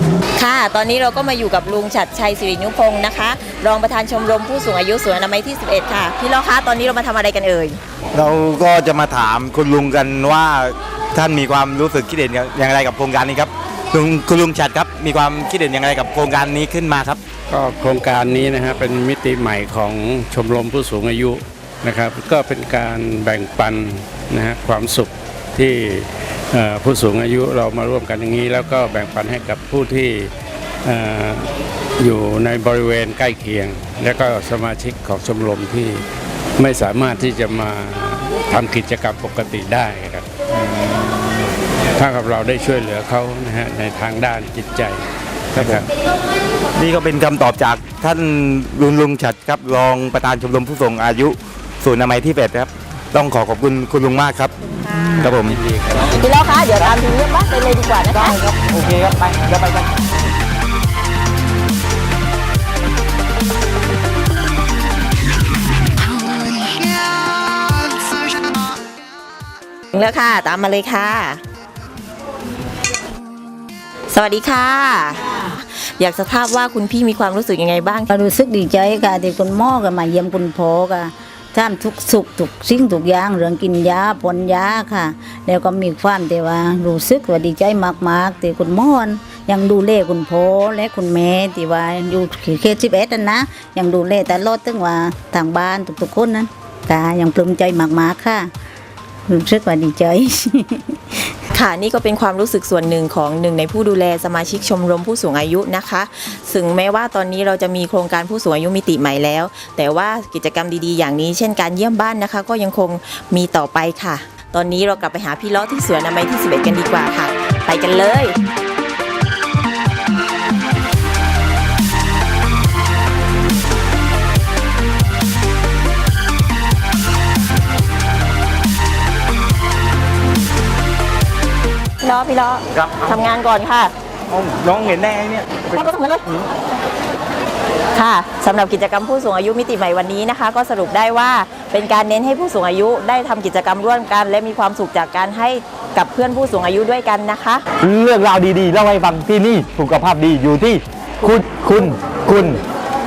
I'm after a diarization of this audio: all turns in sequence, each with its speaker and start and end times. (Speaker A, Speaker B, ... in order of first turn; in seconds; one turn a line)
Speaker A: 0.4-7.8
Speaker B: 8.1-17.2
Speaker C: 17.5-30.3
Speaker C: 30.9-36.1
Speaker C: 36.6-40.3
Speaker C: 42.0-45.9
Speaker B: 45.5-45.9
Speaker B: 46.8-54.5
Speaker B: 55.2-55.6
Speaker C: 55.2-56.2
Speaker A: 56.0-58.4
Speaker B: 58.1-59.9
Speaker A: 69.9-71.4
Speaker A: 74.1-78.1
Speaker D: 78.1-98.5
Speaker D: 99.3-101.0
Speaker A: 101.5-118.4
Speaker A: 132.0-133.9
Speaker B: 132.7-133.2
Speaker B: 134.3-136.4
Speaker A: 135.8-136.1
Speaker A: 137.9-147.6
Speaker B: 147.8-152.6